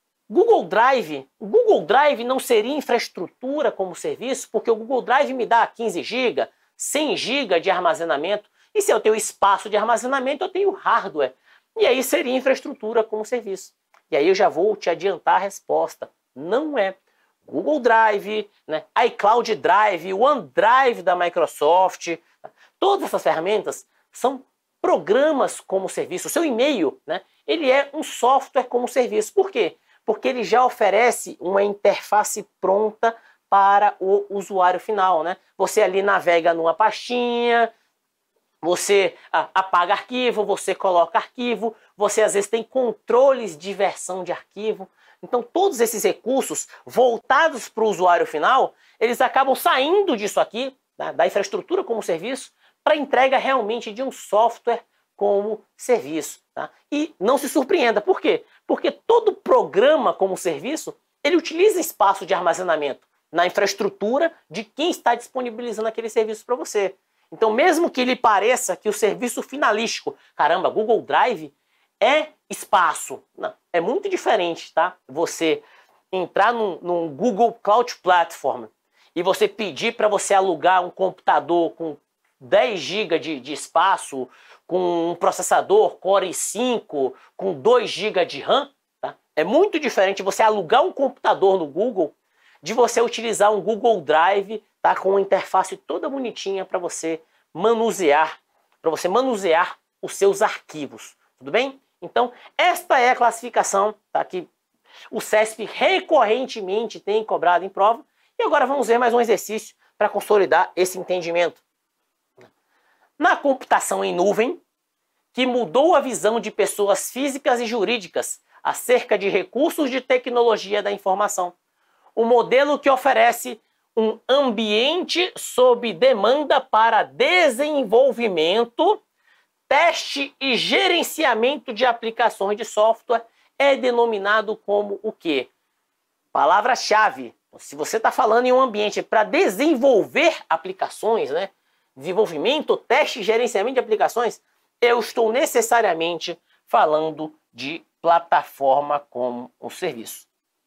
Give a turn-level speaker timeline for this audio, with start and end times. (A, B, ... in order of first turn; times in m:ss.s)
0:00.3-0:37.7 A
0:38.6-1:44.5 A
1:45.1-1:51.6 A
1:53.2-1:54.6 A
1:55.3-2:01.5 A
2:02.2-2:09.0 A
2:09.7-2:15.5 A
2:16.3-2:30.3 A